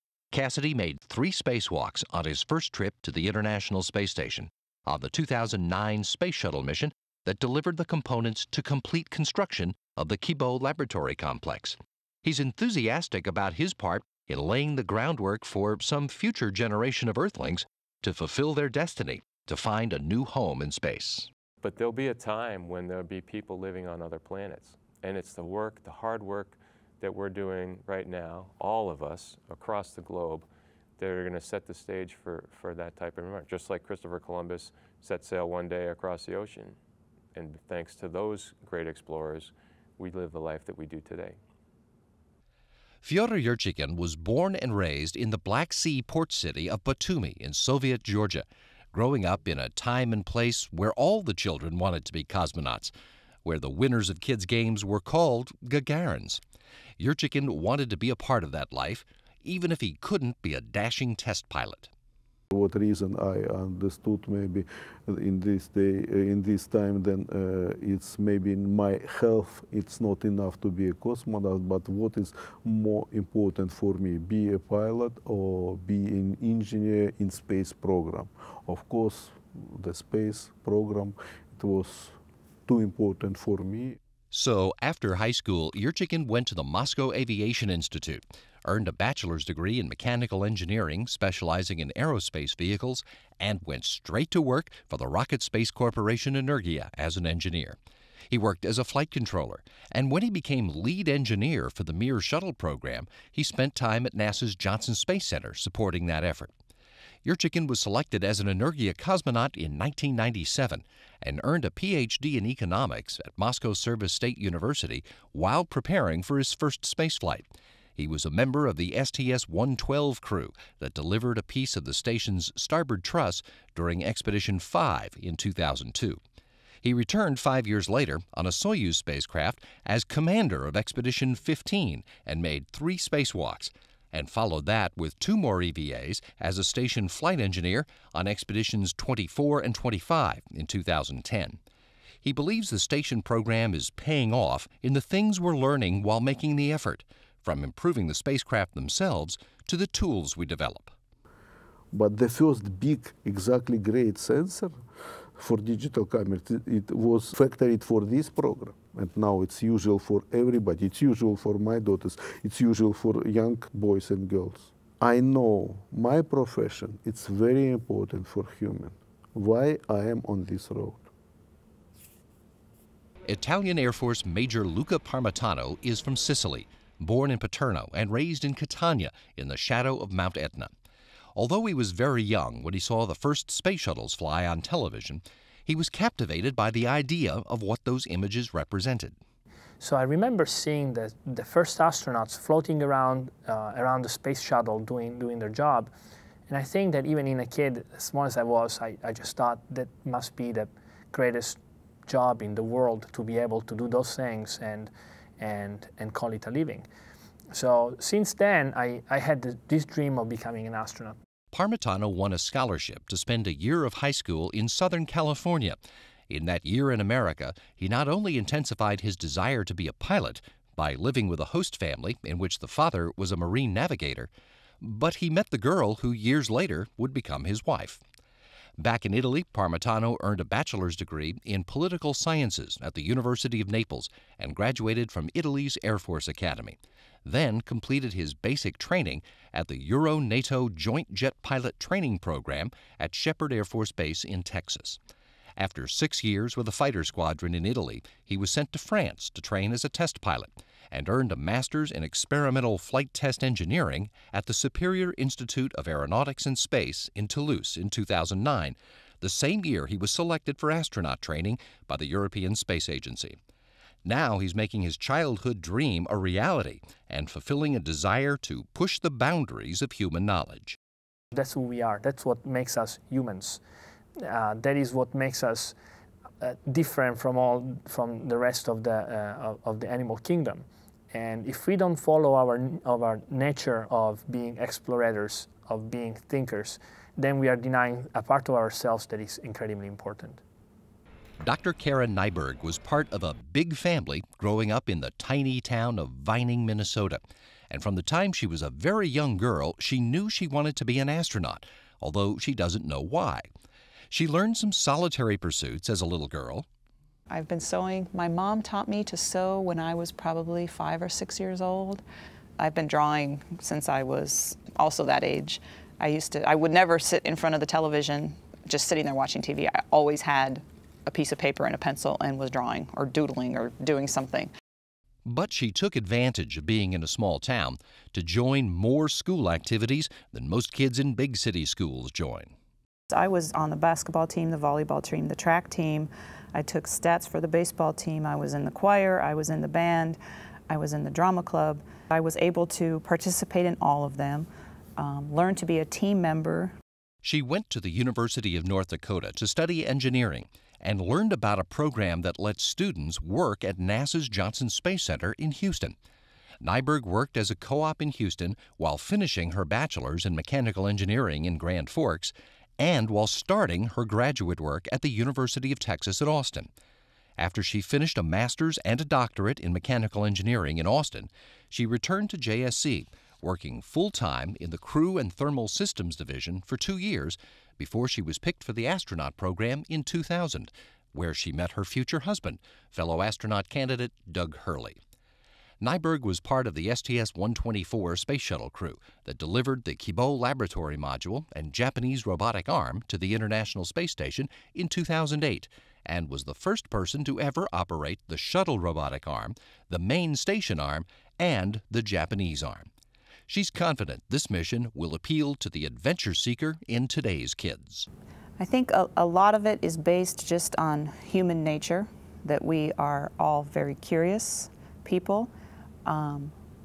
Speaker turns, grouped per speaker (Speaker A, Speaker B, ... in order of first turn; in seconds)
Speaker A: 0.3-21.3, 43.0-52.9, 53.4-56.4, 57.0-61.9, 84.3-97.8, 98.3-106.5, 107.2-126.2, 126.8-141.6, 142.2-150.9, 173.3-180.7, 181.3-189.2, 211.5-215.8, 216.3-224.3, 224.8-228.0, 228.8-245.0, 245.6-263.4, 264.1-270.8, 291.4-303.5, 304.1-306.7, 325.2-332.5, 347.2-355.9, 356.6-366.7, 367.4-385.0, 385.8-402.9, 403.5-408.1
Speaker B: 21.6-30.5, 31.0-36.8, 37.3-41.4
Speaker C: 62.5-84.0, 151.9-154.8, 155.4-171.1
Speaker D: 189.8-195.9, 196.5-206.8, 207.5-211.2, 271.3-273.6, 274.2-275.8, 276.4-290.4
Speaker E: 307.3-312.0, 312.6-324.5, 333.1-346.7, 408.6-415.5, 416.1-416.5